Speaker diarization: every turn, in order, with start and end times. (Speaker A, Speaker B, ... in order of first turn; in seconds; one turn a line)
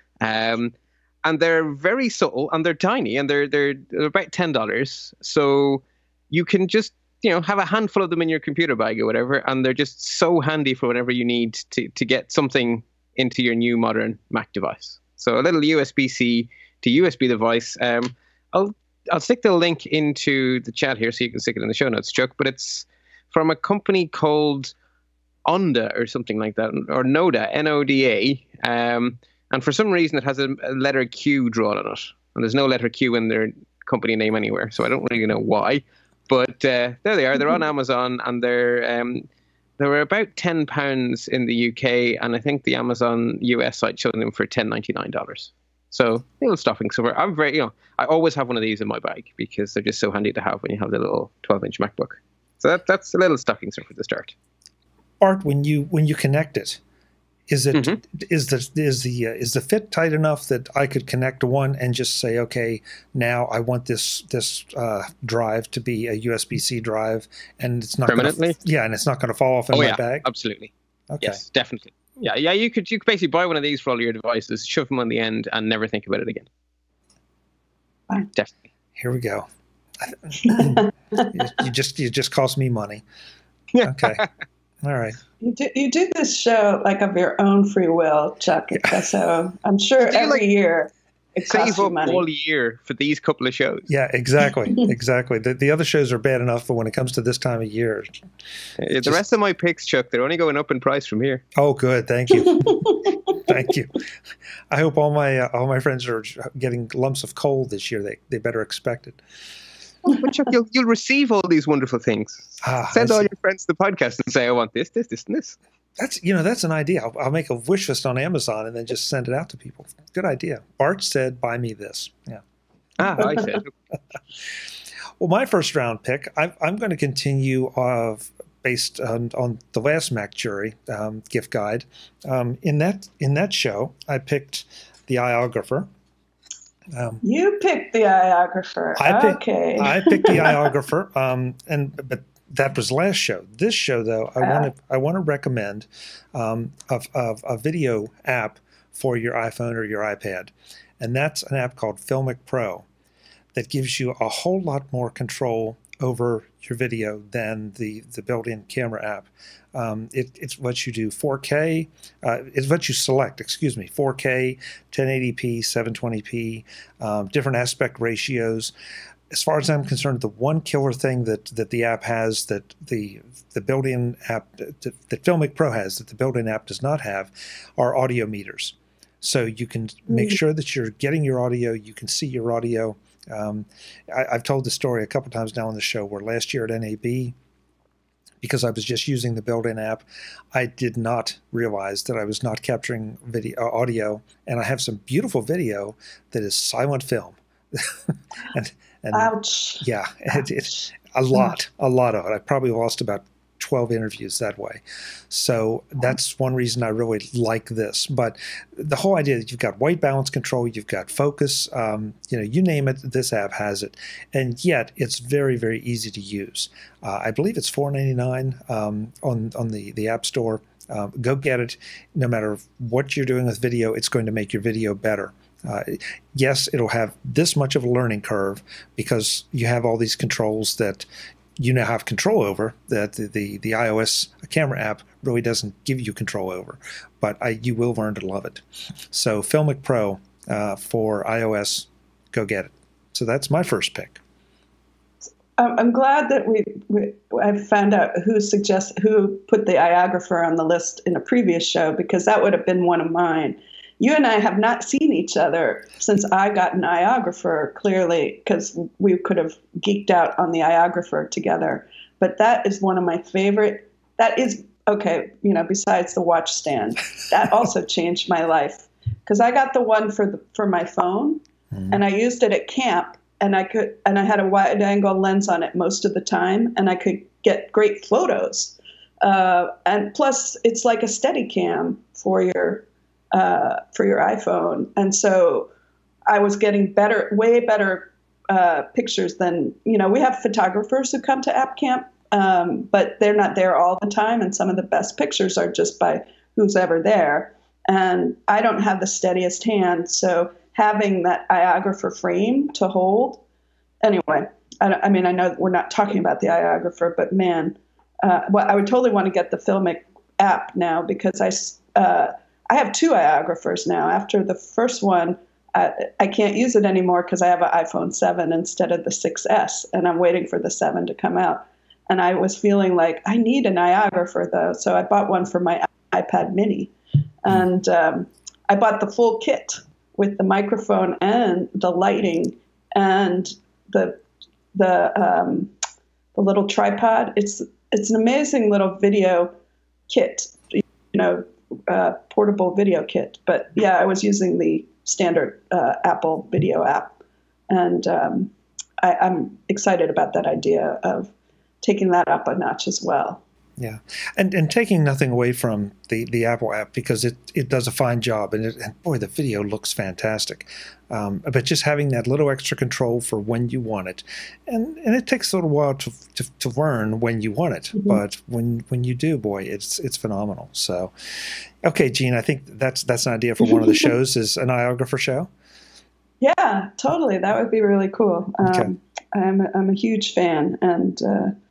Speaker A: 0.2-24.7
Speaker A: 25.4-39.3
Speaker A: 39.8-54.3
Speaker B: 55.2-56.8
Speaker B: 57.5-70.2
Speaker A: 57.7-58.0
Speaker A: 68.0-68.6
Speaker A: 69.7-76.5
Speaker B: 71.1-71.4
Speaker A: 78.2-78.6
Speaker B: 79.0-79.5
Speaker B: 80.0-83.0
Speaker C: 80.4-81.4
Speaker A: 83.7-84.3
Speaker B: 83.8-84.2
Speaker B: 84.8-85.2
Speaker C: 85.4-92.2
Speaker A: 90.0-90.4
Speaker A: 91.4-93.9
Speaker B: 93.9-98.1
Speaker A: 98.8-101.4
Speaker B: 101.5-104.0
Speaker C: 102.4-103.2
Speaker B: 104.7-109.2
Speaker A: 110.1-115.6
Speaker B: 112.6-113.3
Speaker B: 116.0-122.4
Speaker A: 123.0-123.7
Speaker B: 123.0-123.4
Speaker B: 125.2-135.9
Speaker B: 136.9-137.2
Speaker C: 137.2-140.6
Speaker B: 139.0-152.8
Speaker C: 144.4-144.7
Speaker B: 153.5-168.7
Speaker B: 169.3-187.3
Speaker C: 180.1-180.4
Speaker B: 188.4-231.1
Speaker C: 199.1-200.4
Speaker B: 231.6-244.2
Speaker C: 245.6-285.7
Speaker C: 286.3-303.4
Speaker C: 304.0-334.2
Speaker C: 334.7-335.7
Speaker C: 336.3-339.5
Speaker C: 340.1-347.2
Speaker C: 347.7-353.4
Speaker B: 353.8-371.1
Speaker B: 371.8-375.5
Speaker C: 376.4-381.5
Speaker B: 378.6-378.9